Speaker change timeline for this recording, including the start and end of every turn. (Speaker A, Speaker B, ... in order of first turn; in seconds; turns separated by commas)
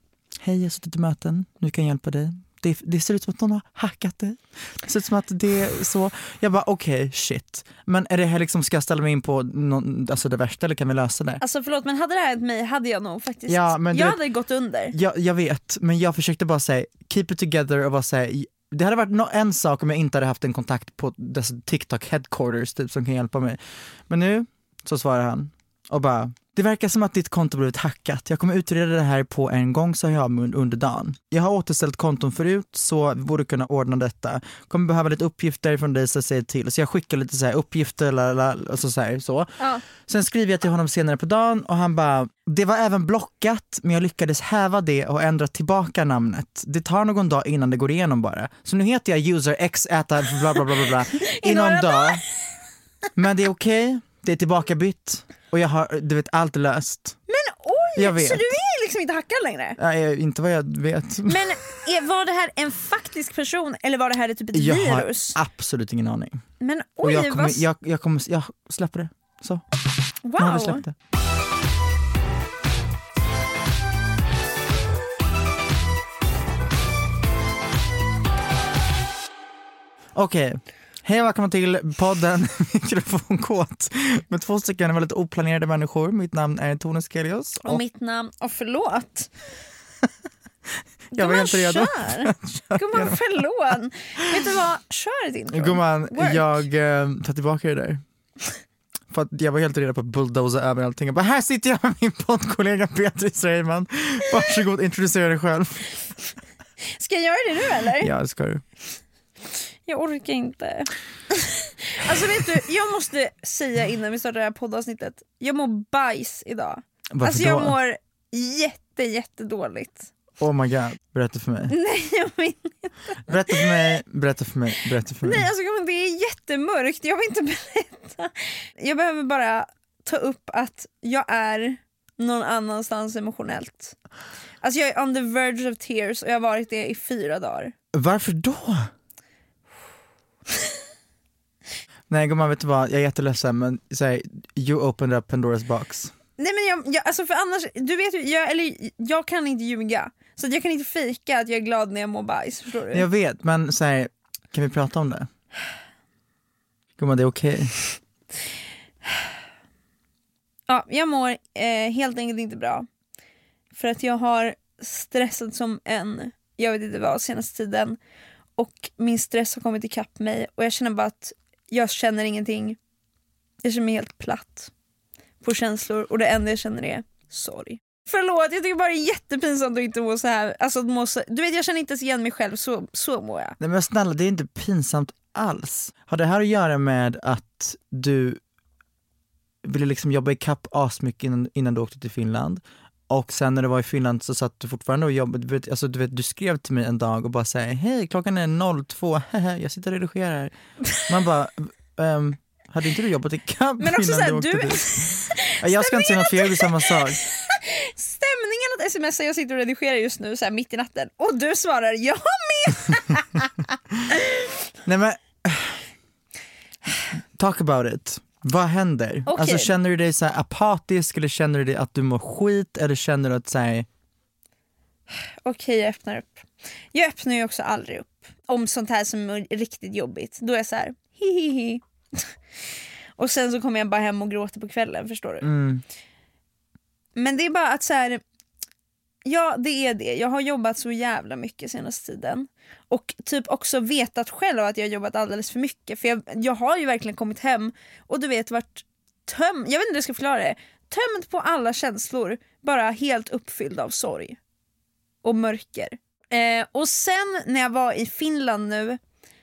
Speaker A: 0.4-11.4, Speaker B: 11.4-14.9, Speaker A: 13.5-14.2, Speaker A: 14.9-52.2, Speaker B: 51.3-52.2, Speaker A: 53.1-57.2, Speaker B: 57.3-59.8, Speaker A: 58.0-58.5, Speaker A: 59.8-61.4, Speaker B: 61.3-65.4, Speaker A: 64.5-66.4, Speaker B: 66.6-67.6, Speaker A: 67.0-69.6, Speaker B: 70.2-70.8, Speaker A: 70.4-70.9, Speaker A: 80.1-87.8, Speaker B: 87.6-89.3, Speaker A: 91.1-93.2, Speaker B: 91.1-96.5, Speaker A: 95.5-98.0, Speaker A: 99.1-105.9, Speaker B: 107.0-108.1, Speaker A: 108.0-108.6, Speaker B: 109.9-120.1, Speaker A: 117.1-117.7, Speaker A: 120.4-121.7, Speaker B: 121.7-123.9, Speaker A: 123.3-125.5, Speaker B: 125.2-133.9, Speaker B: 134.6-137.7, Speaker A: 137.9-138.9, Speaker A: 142.1-146.1, Speaker B: 146.4-153.1, Speaker A: 152.9-155.3, Speaker A: 157.0-157.8, Speaker B: 160.7-162.9, Speaker B: 163.7-168.0, Speaker B: 168.6-172.8, Speaker B: 173.6-174.7, Speaker B: 175.4-183.6, Speaker A: 183.6-188.4, Speaker A: 189.6-207.2, Speaker B: 203.8-206.9, Speaker B: 207.5-213.4, Speaker A: 214.8-215.8, Speaker A: 217.3-223.9, Speaker B: 219.3-219.7, Speaker B: 225.4-232.3, Speaker B: 233.2-235.5, Speaker A: 235.4-235.8, Speaker B: 237.2-238.2, Speaker B: 239.2-254.4, Speaker B: 255.2-259.0